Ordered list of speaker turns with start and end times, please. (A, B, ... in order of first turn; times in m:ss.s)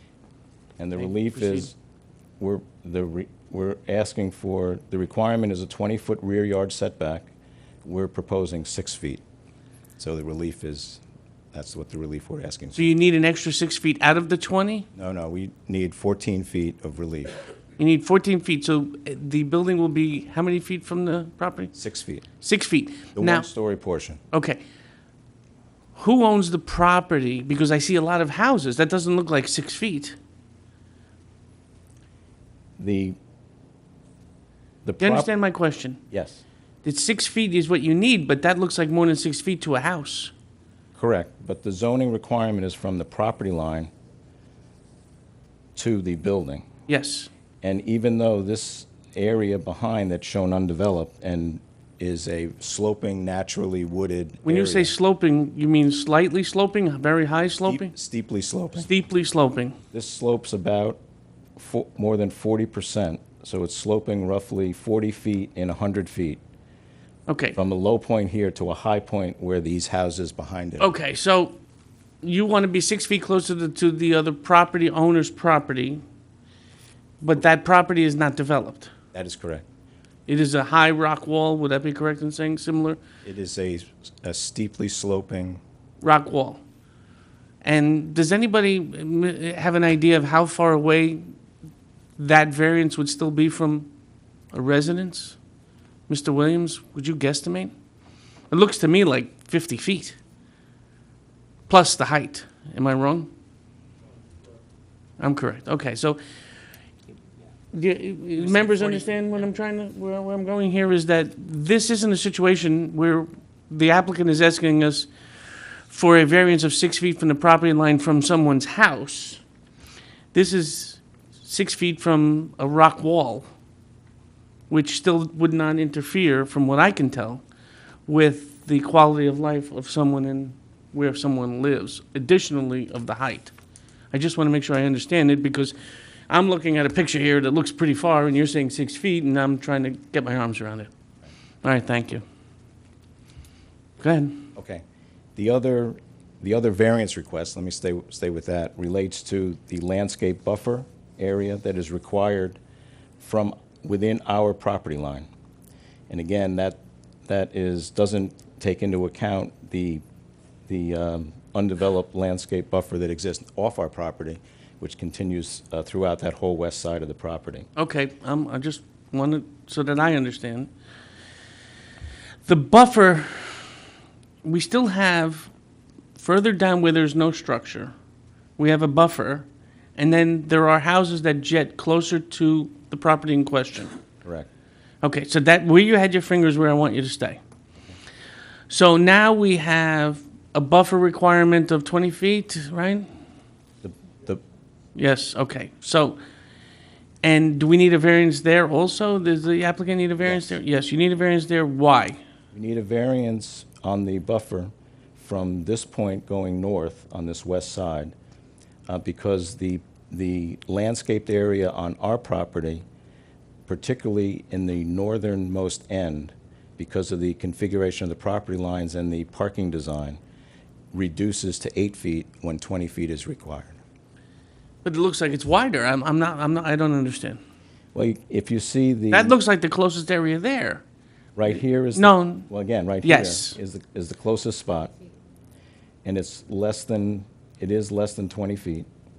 0:00.8-0:01.8 A
0:01.4-0:01.6 B
0:02.4-0:07.3 A
0:07.8-0:09.2 A
0:10.0-0:11.0 A
0:11.5-0:12.9 A
0:12.8-0:14.9 B
0:15.0-0:17.4 A
0:17.8-0:21.7 B
0:21.7-0:22.2 A
0:22.4-0:23.5 B
0:23.2-0:24.2 A
0:24.3-0:24.6 B
0:26.0-0:30.2 B
0:32.8-0:33.2 A
0:34.8-0:35.3 A
0:35.0-0:36.0 B
0:36.1-0:36.4 A
0:36.8-0:40.3 B
0:41.0-0:43.9 A
0:45.8-0:46.7 A
0:46.9-0:47.3 B
0:47.6-0:54.9 A
0:54.5-0:57.9 B
0:57.7-0:58.9 A
0:58.8-0:59.8 B
0:59.9-1:01.0 A
1:01.6-1:06.4 A
1:07.3-1:07.6 B
1:07.6-1:10.9 A
1:10.8-1:11.6 B
1:12.2-1:16.0 B
1:17.2-1:18.9 B
1:19.1-1:19.6 A
1:20.3-1:23.0 B
1:23.2-1:25.6 A
1:26.0-1:26.6 B
1:27.6-1:31.3 B
1:32.2-1:33.9 B
1:34.5-1:35.4 B
1:36.1-1:37.7 B
1:38.5-1:40.2 B
1:41.7-1:43.3 B
1:45.2-1:46.2 B
1:47.7-1:55.1 B
1:55.9-1:59.4 B
2:00.3-2:03.5 B
2:04.7-2:07.4 B
2:08.1-2:13.5 B
2:14.1-2:15.8 B
2:16.3-2:20.9 B
2:21.6-2:22.2 B
2:24.0-2:24.5 B
2:24.6-2:24.8 A
2:25.4-2:32.6 A
2:33.2-2:35.3 A
2:36.1-2:40.0 A
2:40.7-2:47.7 A
2:47.8-2:50.7 B
2:52.5-2:53.7 B
2:54.4-2:55.5 B
2:56.2-2:57.9 B
2:58.6-3:03.9 B
3:05.0-3:07.4 B
3:08.7-3:13.1 B
3:13.8-3:14.4 A
3:15.0-3:16.2 B
3:17.2-3:22.2 B
3:20.2-3:20.6 A
3:22.5-3:28.2 A
3:28.9-3:32.8 A
3:33.7-3:40.2 A
3:40.9-3:43.8 A
3:44.8-3:47.4 B
3:47.9-3:49.4 A
3:49.1-3:50.8 B
3:51.4-3:54.9 A
3:52.0-3:52.5 B
3:53.0-3:53.6 B
3:56.0-3:58.9 A